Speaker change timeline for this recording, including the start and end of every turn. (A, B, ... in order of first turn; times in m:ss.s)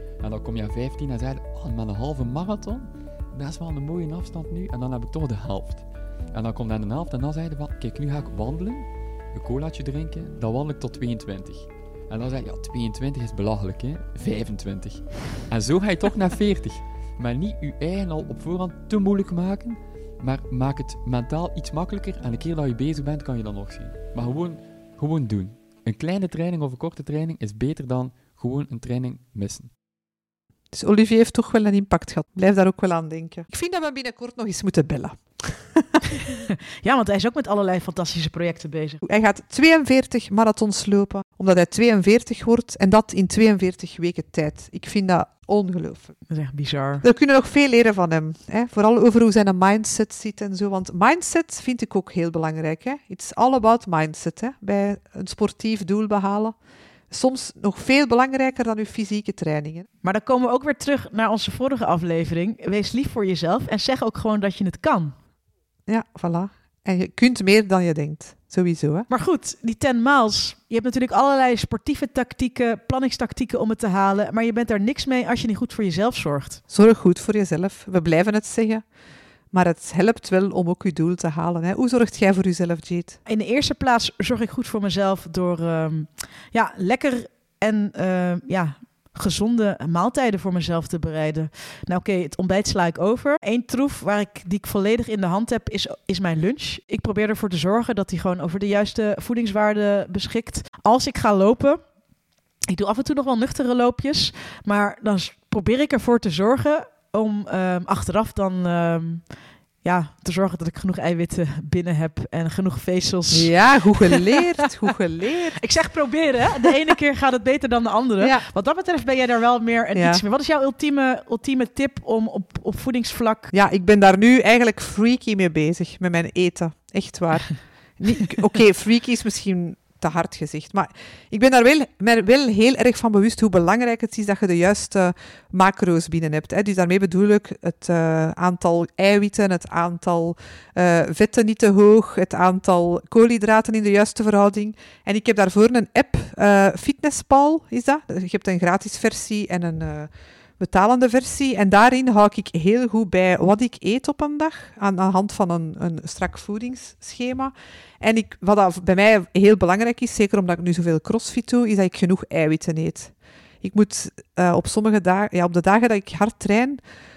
0:00.2-0:29.7 A
0:30.7-0:36.0 B
0:36.8-0:39.0 C
0:39.0-0:46.3 B
0:46.3-0:47.0 C
0:47.0-0:56.6 B
0:57.1-0:59.9 B
1:00.0-1:05.1 C
1:05.9-1:09.1 B
1:09.1-1:16.6 C
1:16.7-1:18.8 B
1:19.5-1:23.2 B
1:23.2-1:41.9 C
1:42.7-1:54.4 C
1:53.3-1:55.6 B
1:55.6-2:03.5 C
1:58.2-1:58.5 B
1:59.9-2:00.2 B
2:03.5-2:46.8 B